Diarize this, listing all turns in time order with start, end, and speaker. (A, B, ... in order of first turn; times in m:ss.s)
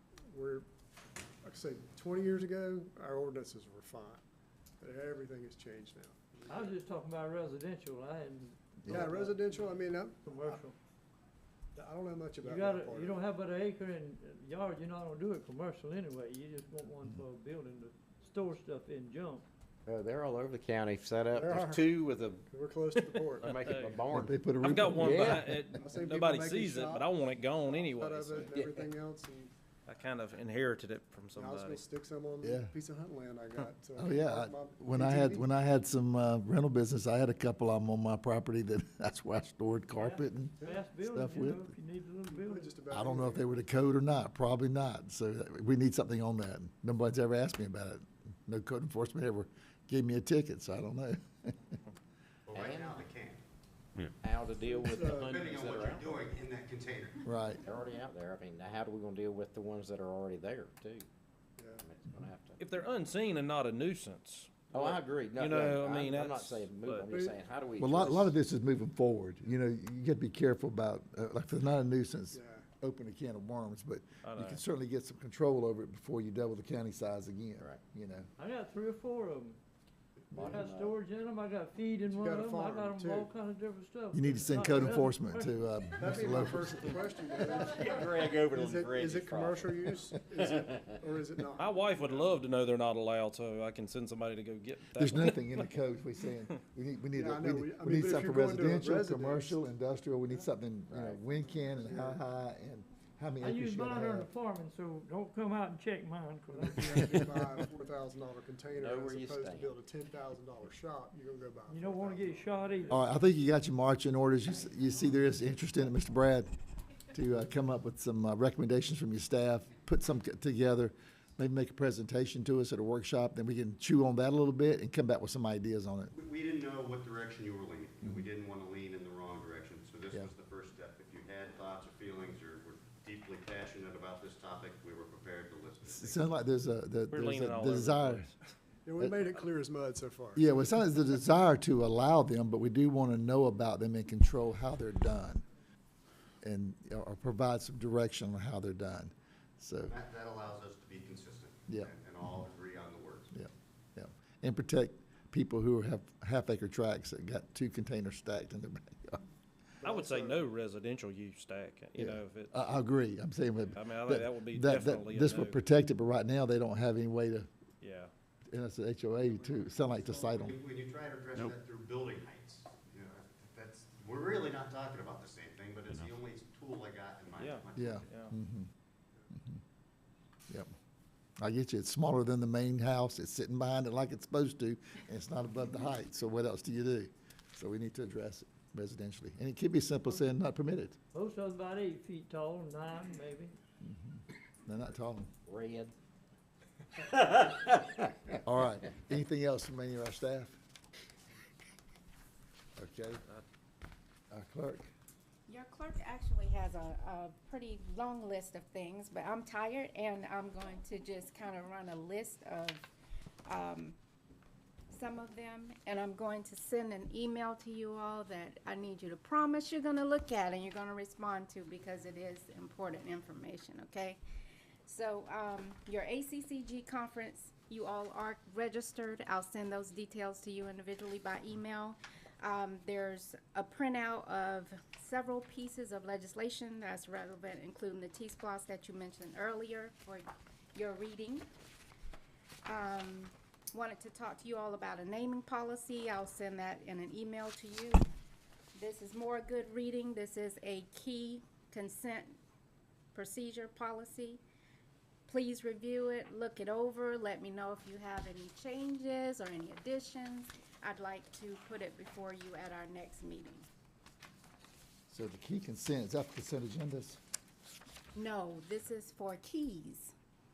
0:00.3-0:00.7 A
0:01.4-0:04.2 A
0:04.8-0:06.7 A
0:06.5-0:10.8 B
0:08.9-0:10.6 A
0:11.8-0:13.2 A
0:12.4-0:19.5 B
0:19.9-0:22.5 C
0:21.3-0:21.9 A
0:22.5-0:23.6 A
0:23.4-0:24.0 D
0:23.5-0:24.4 C
0:24.1-0:25.7 E
0:24.6-0:28.6 D
0:24.9-0:25.5 C
0:25.8-0:29.5 A
0:28.5-0:28.9 C
0:29.9-0:31.8 D
0:31.4-0:35.5 A
0:32.4-0:32.7 E
0:34.0-0:41.7 E
0:39.9-0:42.8 B
0:42.3-0:43.5 A
0:42.9-0:51.6 E
0:52.5-0:53.4 F
0:52.5-0:53.1 C
0:54.2-0:56.3 C
0:54.6-0:55.3 A
0:55.2-0:57.3 F
0:57.2-0:57.6 E
0:57.6-1:01.1 C
1:01.6-1:01.9 A
1:01.8-1:02.6 C
1:02.6-1:07.2 D
1:04.7-1:08.4 C
1:07.1-1:07.4 A
1:07.8-1:18.3 E
1:12.3-1:12.7 A
1:14.2-1:14.6 D
1:18.4-1:19.6 B
1:20.3-1:20.7 E
1:20.4-1:21.0 C
1:20.4-1:20.7 A
1:20.4-1:26.1 B
1:22.1-1:23.3 A
1:24.1-1:27.0 E
1:26.0-1:32.4 A
1:27.4-1:31.0 C
1:31.6-1:35.6 D
1:35.0-1:44.3 E
1:37.2-1:39.6 A
1:40.9-1:41.2 C
1:41.8-1:42.2 A
1:43.4-1:47.3 B
1:46.5-1:52.5 A
1:46.8-1:47.3 E
1:48.8-1:49.8 C
1:51.7-1:53.0 B
1:52.9-1:56.5 E
1:57.1-2:06.1 E
2:06.1-2:16.3 F
2:15.8-2:18.3 E
2:17.1-2:18.4 D
2:18.8-2:20.5 A
2:19.0-2:19.4 E
2:20.4-2:25.4 E
2:26.4-2:30.0 E
2:29.9-2:33.3 F
2:33.3-2:39.2 E
2:39.8-2:40.5 A
2:39.8-2:42.5 D
2:42.0-2:47.5 E
2:43.7-2:45.6 D
2:47.8-2:48.1 D
2:48.5-2:50.6 E
2:49.2-2:50.4 A
2:50.3-2:58.1 F
2:57.4-2:58.3 D
2:57.8-2:58.7 E
2:59.3-2:59.6 E
3:01.4-3:11.0 E
3:11.1-3:13.6 B
3:13.8-3:15.3 E
3:15.5-3:15.9 C
3:17.2-3:17.8 C
3:18.4-3:20.6 E
3:22.8-3:23.2 E
3:24.3-3:24.9 E
3:25.5-3:32.9 G
3:33.5-3:34.0 G
3:34.9-3:44.2 G
3:44.8-4:01.5 G
4:02.7-4:08.1 G
4:08.8-4:12.4 G
4:13.1-4:14.4 G
4:15.3-4:23.7 G
4:25.1-4:27.2 E
4:28.2-4:30.1 G